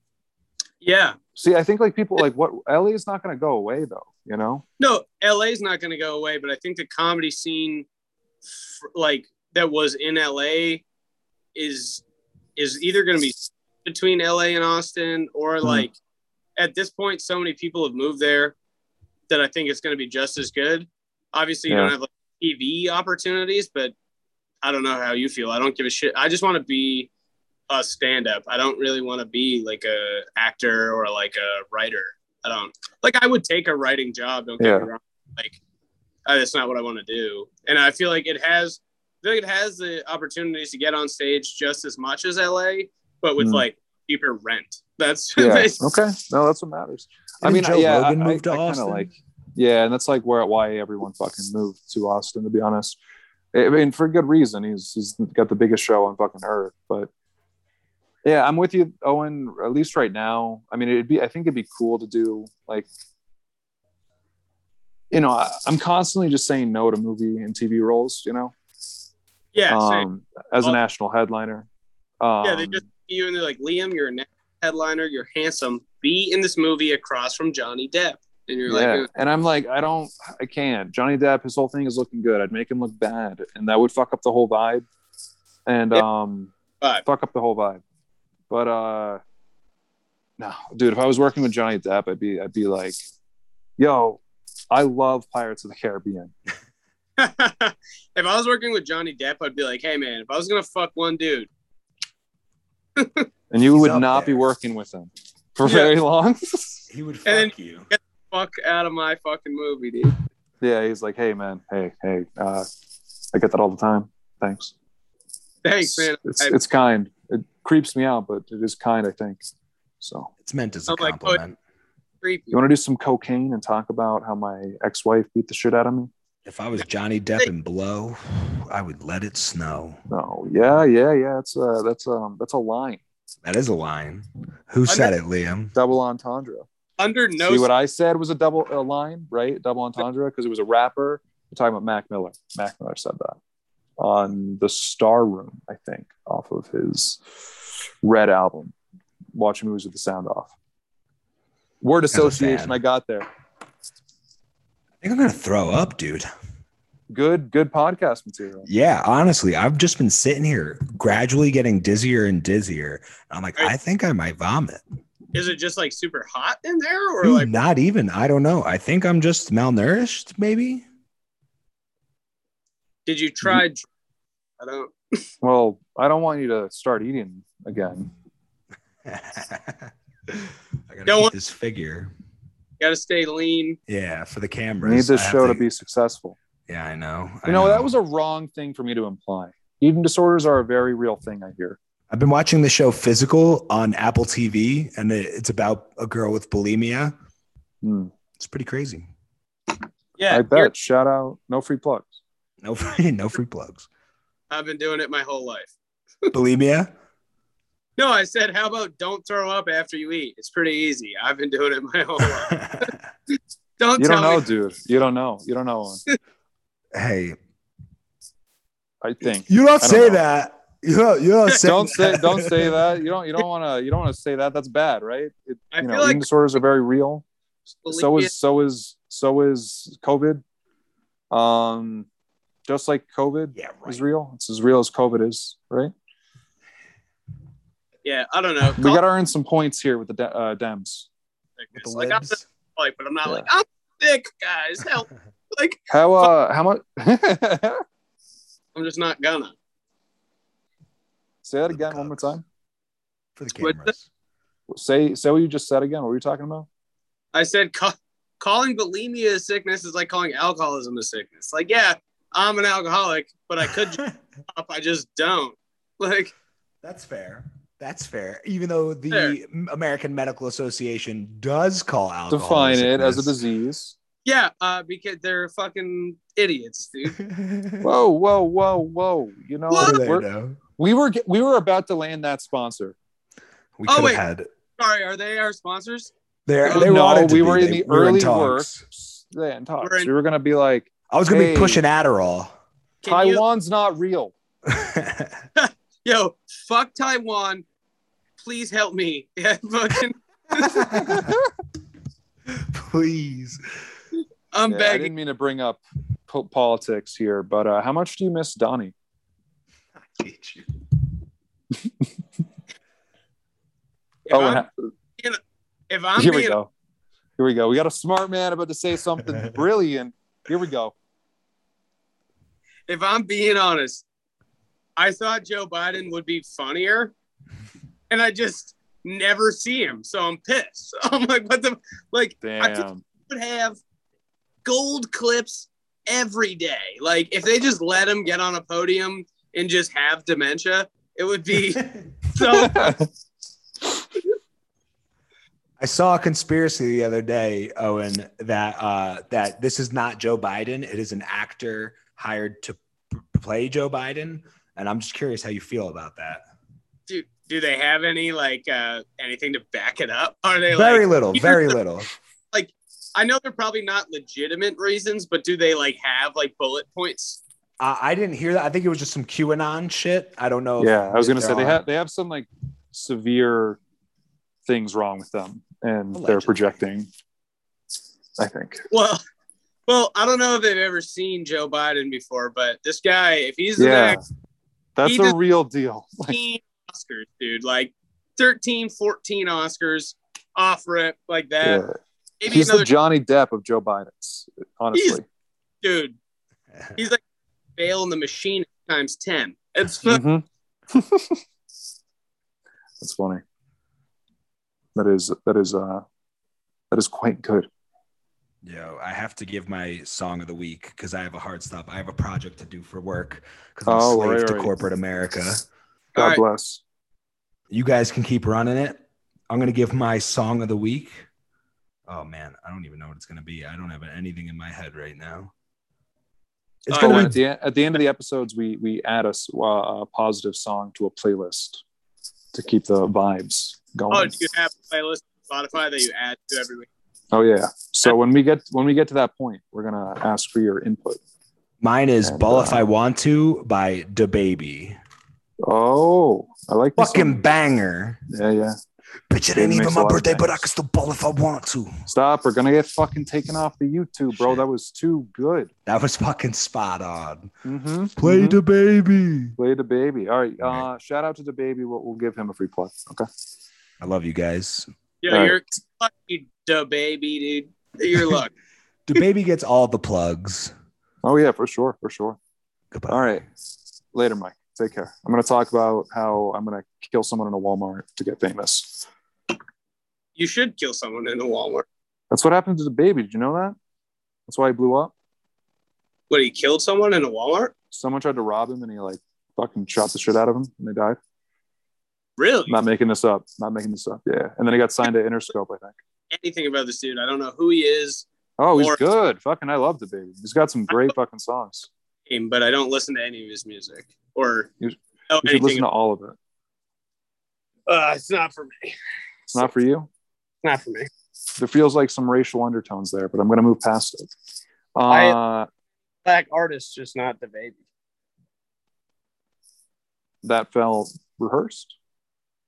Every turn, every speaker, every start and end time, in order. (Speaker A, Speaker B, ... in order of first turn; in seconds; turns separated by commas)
Speaker A: 0.8-1.2, Speaker B: 1.4-4.6, Speaker A: 4.8-7.9, Speaker A: 8.8-10.8, Speaker A: 11.6-12.0, Speaker A: 12.6-15.9, Speaker A: 16.6-18.6, Speaker A: 19.3-23.9, Speaker B: 21.7-21.9, Speaker A: 24.6-27.1, Speaker A: 27.7-35.6, Speaker B: 34.6-34.9, Speaker A: 36.3-45.8, Speaker B: 43.4-43.6, Speaker B: 45.4-53.0, Speaker C: 47.4-49.1, Speaker B: 53.5-57.1, Speaker B: 58.2-62.9, Speaker B: 65.1-68.5, Speaker A: 69.5-70.1, Speaker B: 69.7-71.7, Speaker B: 72.2-72.8, Speaker A: 72.4-79.1, Speaker B: 78.7-84.9, Speaker B: 85.7-86.5, Speaker B: 87.0-87.8, Speaker B: 88.5-89.2, Speaker B: 90.4-93.0, Speaker B: 93.8-96.3, Speaker A: 97.2-101.5, Speaker A: 103.0-103.3, Speaker B: 103.5-106.8, Speaker C: 103.8-104.4, Speaker A: 105.7-105.9, Speaker C: 106.9-107.9, Speaker A: 107.3-110.2, Speaker B: 110.6-112.7, Speaker B: 113.3-114.7, Speaker A: 115.6-116.6, Speaker B: 115.8-119.4, Speaker B: 120.0-120.3, Speaker C: 120.4-121.6, Speaker A: 120.9-121.4, Speaker A: 122.2-122.6, Speaker B: 122.5-126.1, Speaker C: 126.5-130.0, Speaker B: 130.1-133.0, Speaker C: 133.4-135.7, Speaker A: 134.9-135.1, Speaker B: 135.7-136.7, Speaker A: 137.0-137.7, Speaker B: 137.5-143.4, Speaker B: 144.0-147.2, Speaker B: 148.0-148.8, Speaker B: 149.3-150.5, Speaker B: 151.8-153.3, Speaker C: 152.1-152.8, Speaker C: 155.0-156.3, Speaker B: 157.1-158.7, Speaker C: 158.7-164.8, Speaker A: 165.3-167.5, Speaker C: 167.2-170.8, Speaker A: 173.1-173.9, Speaker A: 174.6-175.2, Speaker B: 175.4-178.1, Speaker C: 179.0-182.1, Speaker A: 181.1-181.3, Speaker A: 182.8-183.8, Speaker C: 183.9-185.6, Speaker B: 184.8-186.4, Speaker C: 186.7-187.9, Speaker B: 187.5-191.8, Speaker C: 192.1-197.1, Speaker B: 197.8-198.1, Speaker C: 198.4-199.1, Speaker A: 200.2-200.7, Speaker B: 200.3-202.2, Speaker C: 202.6-203.9, Speaker A: 204.5-206.3, Speaker C: 206.3-206.9, Speaker A: 208.0-212.9, Speaker C: 212.2-212.9, Speaker A: 213.8-214.5, Speaker B: 214.0-216.0, Speaker C: 216.9-217.4, Speaker B: 219.0-220.2, Speaker C: 219.5-222.8, Speaker A: 221.5-221.8, Speaker B: 221.6-227.2, Speaker A: 225.7-226.3, Speaker A: 227.8-228.3, Speaker B: 227.9-230.4, Speaker B: 231.3-232.1, Speaker B: 232.7-235.9, Speaker C: 233.6-234.0, Speaker A: 238.0-239.0, Speaker B: 238.8-241.1, Speaker A: 241.6-246.3, Speaker C: 241.8-242.5, Speaker B: 245.9-247.8, Speaker A: 248.8-249.5, Speaker B: 251.4-252.4, Speaker C: 251.7-252.4, Speaker C: 253.4-254.1, Speaker A: 253.6-253.9, Speaker B: 254.7-256.7, Speaker A: 257.3-266.3, Speaker C: 266.8-273.3, Speaker B: 272.3-273.9, Speaker A: 274.2-277.2, Speaker C: 277.2-277.9, Speaker B: 277.8-280.3, Speaker A: 279.7-280.0, Speaker C: 279.8-280.6, Speaker B: 280.8-283.0, Speaker C: 283.8-284.5, Speaker A: 283.9-284.2, Speaker A: 284.8-286.1, Speaker C: 286.5-288.8, Speaker A: 286.6-287.0, Speaker B: 286.7-291.8, Speaker A: 289.8-290.1, Speaker C: 291.1-292.5, Speaker A: 293.0-293.4, Speaker B: 293.1-294.3, Speaker C: 294.7-295.4, Speaker A: 295.6-297.6, Speaker A: 298.4-301.0, Speaker C: 300.6-301.4, Speaker B: 301.0-301.4, Speaker C: 302.5-303.6, Speaker A: 304.5-305.1, Speaker B: 304.7-308.9, Speaker C: 310.0-310.7, Speaker A: 314.3-314.7, Speaker B: 314.3-314.7, Speaker A: 315.9-316.6, Speaker B: 316.2-316.7, Speaker B: 317.4-320.9, Speaker A: 322.9-324.0, Speaker A: 325.0-327.1, Speaker A: 328.1-333.8, Speaker B: 332.4-333.0, Speaker A: 334.6-343.0, Speaker B: 342.4-343.1, Speaker C: 345.8-356.4, Speaker A: 357.1-361.8, Speaker C: 360.7-362.1, Speaker A: 362.5-367.4, Speaker C: 367.8-371.8, Speaker B: 370.8-373.8, Speaker B: 374.7-377.1, Speaker C: 376.1-376.8, Speaker B: 378.4-378.9, Speaker A: 378.9-379.2, Speaker A: 379.9-384.2, Speaker B: 383.8-384.2, Speaker B: 385.0-386.4, Speaker A: 385.0-385.4, Speaker A: 386.3-391.8, Speaker B: 391.6-395.2, Speaker A: 392.4-392.9, Speaker A: 394.9-395.2, Speaker A: 395.8-396.2, Speaker A: 397.8-400.2, Speaker B: 400.1-401.4, Speaker B: 403.0-403.4, Speaker B: 405.0-406.0, Speaker B: 406.9-407.7, Speaker C: 408.6-415.6, Speaker B: 413.9-414.8, Speaker A: 416.2-416.4, Speaker B: 416.2-416.8, Speaker C: 417.7-421.1, Speaker C: 422.1-425.5, Speaker C: 426.9-427.4, Speaker A: 426.9-427.3, Speaker B: 426.9-431.8, Speaker B: 432.5-434.3, Speaker A: 434.1-436.9, Speaker B: 437.3-441.2, Speaker C: 441.8-445.0, Speaker B: 442.2-442.8, Speaker B: 445.6-447.4, Speaker C: 447.0-448.2, Speaker B: 448.3-448.8, Speaker C: 449.3-452.0, Speaker B: 449.5-450.7, Speaker B: 452.1-455.7, Speaker C: 454.3-454.6, Speaker C: 455.9-457.5, Speaker B: 457.6-458.6, Speaker C: 458.2-459.6, Speaker B: 459.6-463.3, Speaker C: 460.6-460.9, Speaker C: 464.0-464.9, Speaker A: 465.2-468.5, Speaker B: 465.3-465.6, Speaker C: 469.1-470.7, Speaker B: 471.2-472.4, Speaker C: 472.9-473.4, Speaker B: 473.1-473.4, Speaker B: 474.1-479.1, Speaker A: 480.4-481.9, Speaker B: 482.3-483.8, Speaker B: 484.5-485.1, Speaker A: 486.3-487.7, Speaker B: 487.9-491.2, Speaker A: 492.4-492.8, Speaker B: 492.7-496.0, Speaker A: 496.3-499.0, Speaker B: 498.6-501.9, Speaker A: 502.3-504.7, Speaker B: 504.8-506.4, Speaker A: 505.3-505.9, Speaker A: 507.9-509.0, Speaker B: 509.5-510.1, Speaker A: 510.6-511.1, Speaker B: 511.6-514.3, Speaker B: 515.0-515.7, Speaker A: 515.1-515.4, Speaker A: 516.2-517.8, Speaker B: 520.4-522.0